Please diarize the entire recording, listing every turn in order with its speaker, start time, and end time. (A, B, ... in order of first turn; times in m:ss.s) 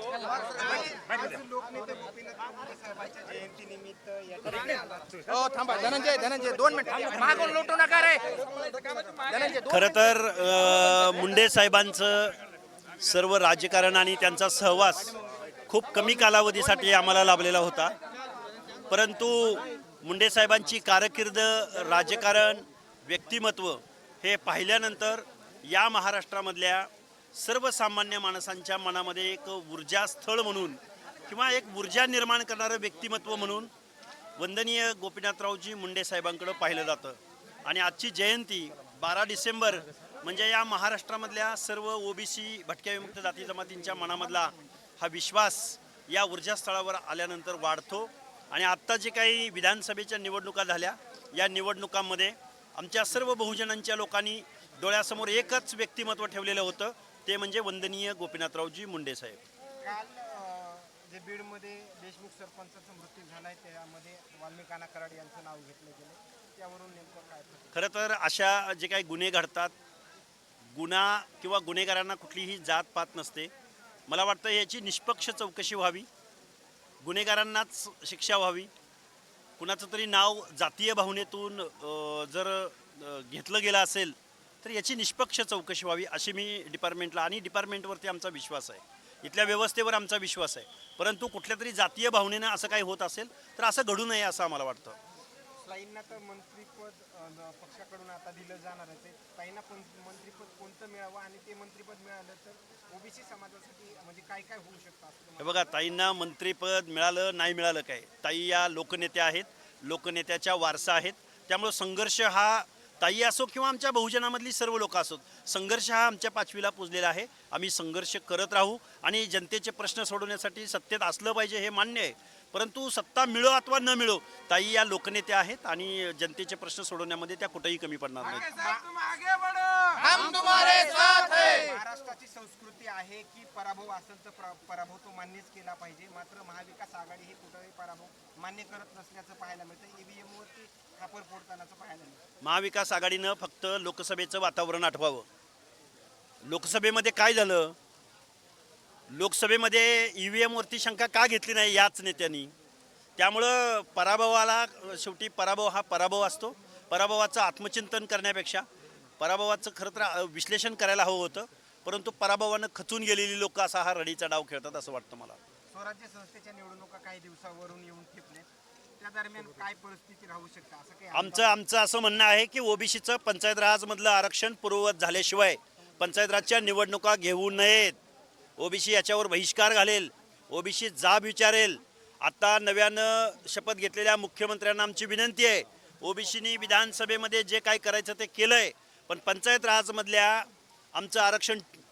0:00.2-0:06.2 A
0:05.3-0:09.8 B
0:09.6-0:12.4 C
0:13.0-0:15.2 C
0:15.7-0:18.0 C
0:18.9-0:33.7 C
0:34.4-0:59.4 C
0:59.8-1:07.8 A
1:07.7-1:09.7 C
1:10.7-1:13.5 C
1:14.1-1:16.1 C
1:17.0-1:18.7 C
1:19.6-1:35.0 C
1:35.6-1:45.8 A
1:45.4-2:08.6 C
2:08.3-2:22.2 A
2:10.0-2:11.3 B
2:22.4-2:25.3 C
2:26.4-2:27.8 C
2:29.1-2:32.5 C
2:33.2-2:38.6 C
2:39.2-2:45.4 C
2:45.7-2:48.5 A
2:49.0-2:51.6 A
2:51.1-2:58.0 C
2:58.6-3:11.8 C